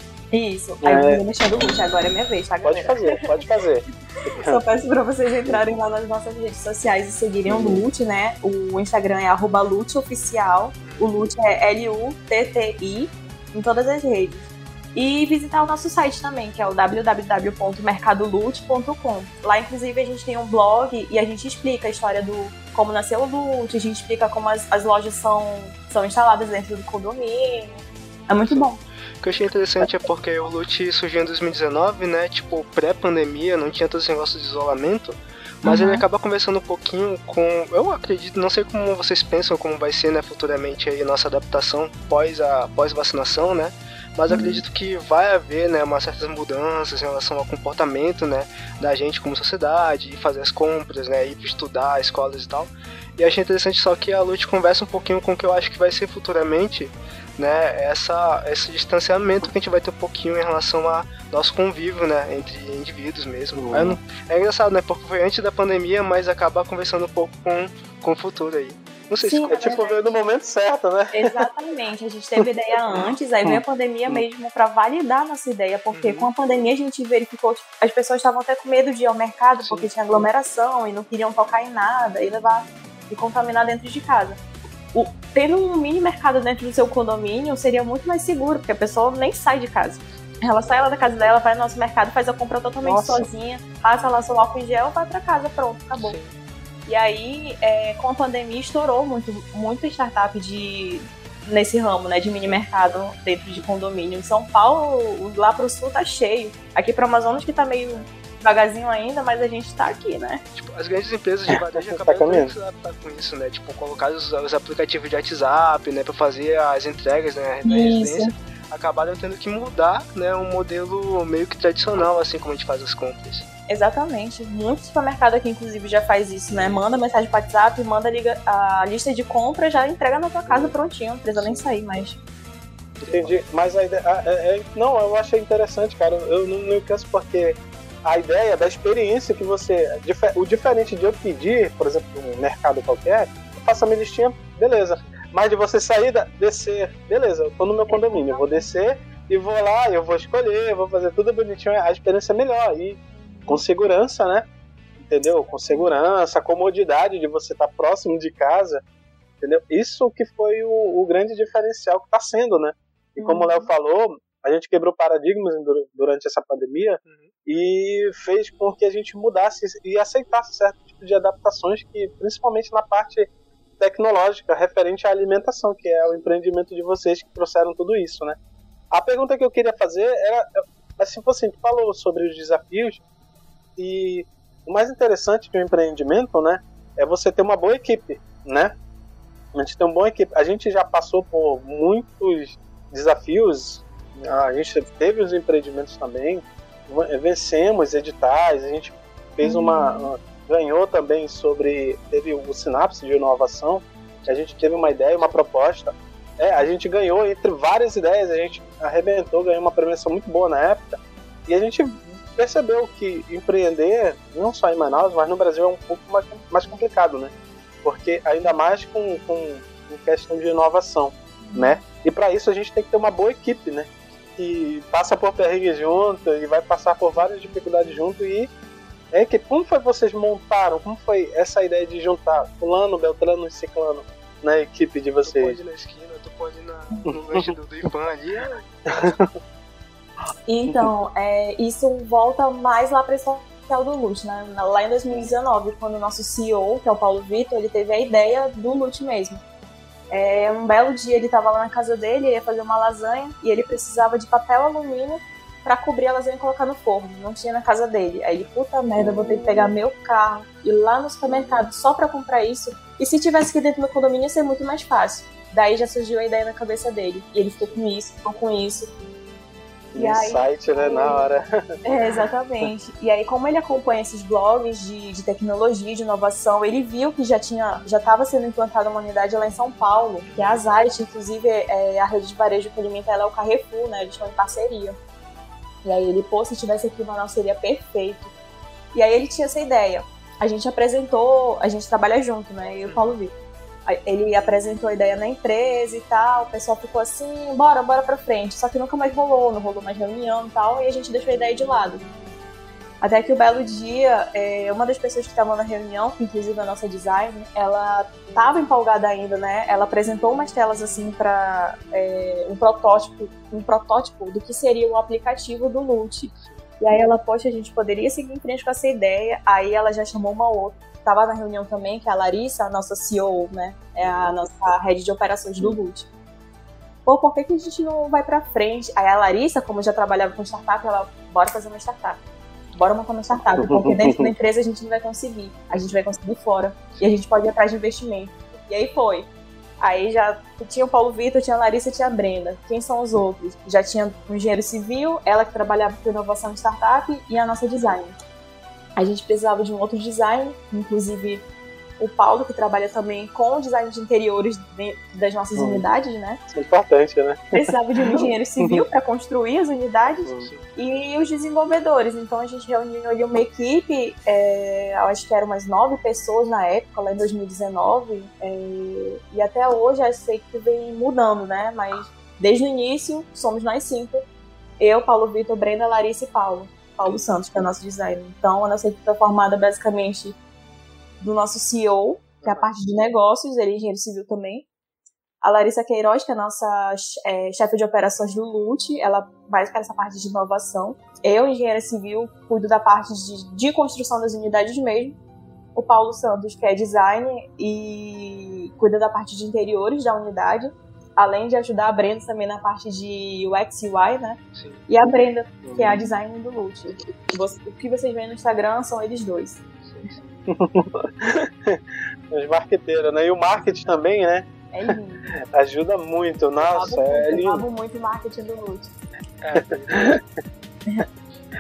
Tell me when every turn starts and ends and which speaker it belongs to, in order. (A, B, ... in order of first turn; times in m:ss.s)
0:00.3-0:03.2 A
0:00.8-0:01.2 B
0:02.6-0:04.6 B
0:04.5-0:28.8 A
0:07.5-0:07.8 B
0:10.8-0:11.1 C
0:29.2-1:09.8 C
0:35.6-0:36.0 A
0:44.3-0:44.6 A
1:03.6-1:04.0 B
1:09.2-1:10.2 A
1:09.5-1:11.4 B
1:11.1-1:24.4 A
1:13.5-1:14.2 B
1:15.9-1:16.3 C
1:24.9-1:36.2 A
1:32.8-1:33.3 B
1:36.0-1:36.4 C
1:36.9-1:50.4 A
1:50.6-2:03.5 C
1:51.5-1:52.5 B
1:57.6-1:58.3 A
2:03.7-2:12.2 A
2:10.5-2:10.7 B
2:11.4-2:11.8 C
2:13.0-2:13.5 C
2:13.1-2:34.5 B
2:27.9-2:28.7 A
2:33.1-2:33.6 A
2:35.0-2:38.8 B
2:39.4-2:53.3 B
2:43.2-2:43.7 A
2:47.0-2:47.3 C
2:53.8-2:58.4 B
2:58.9-3:03.0 B
3:03.8-3:08.7 B
3:09.5-3:37.3 B
3:19.4-3:20.1 A
3:24.6-3:25.3 C
3:37.8-3:48.5 B
3:41.4-3:41.8 A
3:49.1-3:55.6 B
3:55.2-3:59.1 C
3:57.1-3:57.5 B
3:58.9-3:59.3 B
4:00.5-4:09.4 A
4:10.1-4:28.9 A
4:19.0-4:19.7 B
4:21.3-4:21.6 B
4:29.9-4:31.7 B
4:30.0-4:31.3 A
4:31.8-4:45.0 A
4:40.2-4:40.7 C
4:45.8-4:48.3 A
4:48.9-4:53.3 A
4:52.8-4:53.2 C
4:53.9-5:02.0 A
5:03.0-5:26.1 A
5:16.3-5:16.8 C
5:27.1-5:32.2 A
5:32.7-5:39.3 A
5:33.6-5:34.3 B
5:39.8-5:48.2 A
5:49.0-5:51.4 A
5:52.0-5:56.4 A
5:55.6-5:55.8 B
5:56.5-5:58.8 B
5:57.5-6:14.2 A
6:00.2-6:00.5 B
6:14.8-6:20.4 A
6:21.2-6:24.7 A
6:25.4-6:35.2 A
6:35.8-6:49.6 A
6:44.5-6:44.9 C
6:45.6-6:46.1 B
6:49.8-6:50.4 C
6:50.5-6:54.5 B
6:54.7-6:55.3 A
6:55.3-6:57.7 B
6:56.6-6:58.9 A
6:59.4-7:00.1 C
6:59.6-7:00.2 B